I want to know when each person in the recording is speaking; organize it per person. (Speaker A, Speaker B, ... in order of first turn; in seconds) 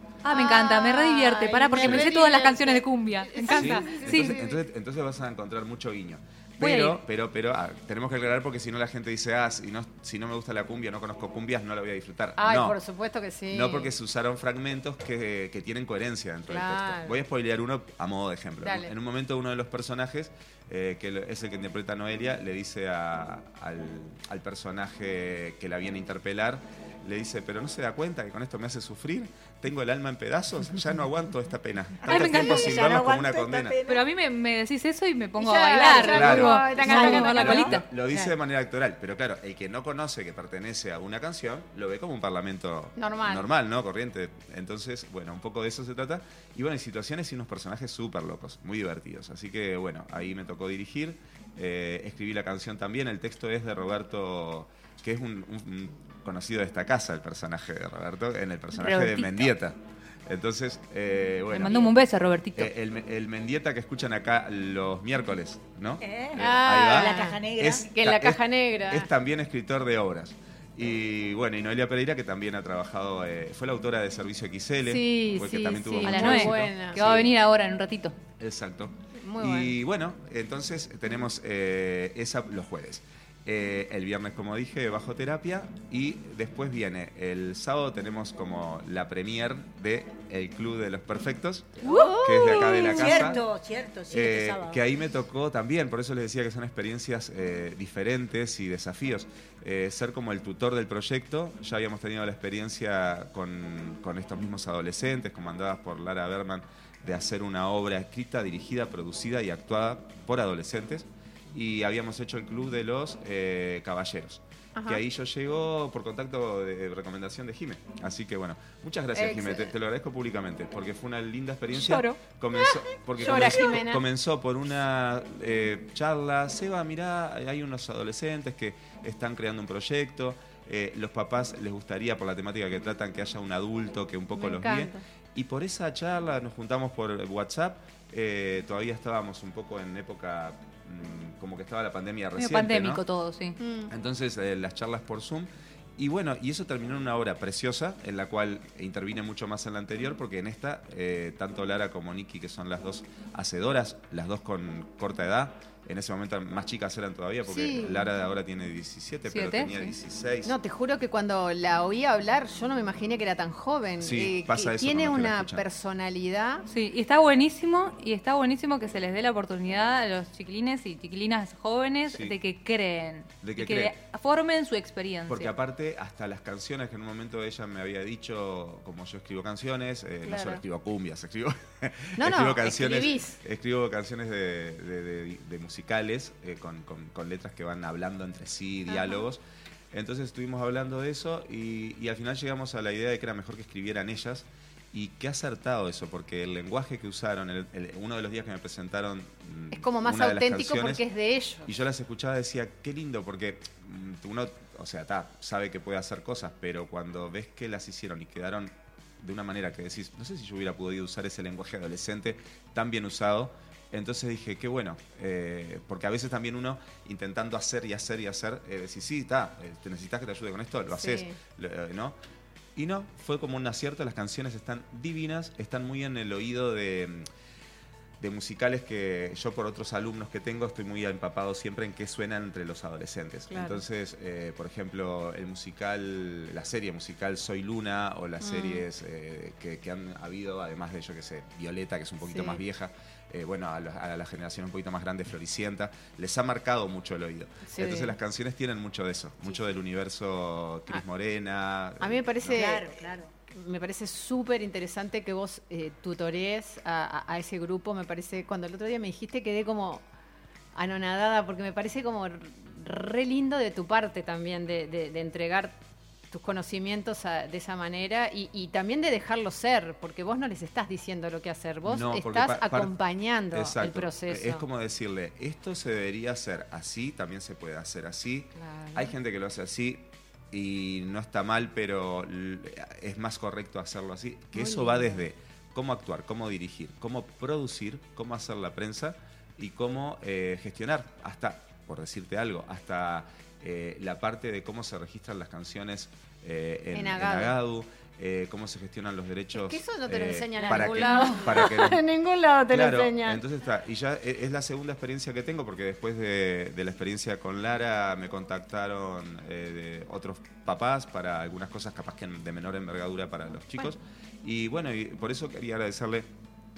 Speaker A: 0.2-4.4, 6.6-7.0, 32.1-32.8, 33.9-37.8, 58.8-59.5, 61.5-62.7, 76.0-78.2, 142.3-143.6, 159.3-159.9, 166.7-175.6
Speaker B: 0.3-4.6, 12.4-13.9, 16.5-17.2, 18.6-18.9, 35.4-37.7, 43.0-43.5, 66.4-69.1, 74.8-77.0, 79.2-79.8, 91.8-93.4, 114.8-115.0, 119.1-119.7, 121.7-122.2, 123.2-124.0, 134.3-135.0, 143.6-143.9, 157.4-158.1, 160.4-166.6, 180.2-180.6, 182.2-183.4, 188.9-189.2, 199.7-201.7, 220.9-221.3, 233.5-233.8, 238.4-238.8, 242.3-242.6, 247.7-248.1, 252.0-252.9, 253.5-260.0, 260.7-265.8, 266.3-274.6, 278.6-279.1, 284.5-285.2, 296.9-297.6, 299.5-303.4
Speaker C: 3.5-12.8, 13.5-33.8, 36.0-36.5, 37.4-61.9, 62.5-77.3, 78.4-93.4, 94.1-143.0, 143.9-160.5, 164.0-165.6, 172.1-172.3, 173.4-173.9, 175.3-189.4, 189.9-201.0, 201.7-222.2, 222.8-227.2, 228.2-252.7, 271.8-272.9, 273.5-302.0, 302.7-316.3
Speaker D: 32.0-34.0, 35.4-38.2, 66.0-67.8, 92.4-94.8, 252.5-253.3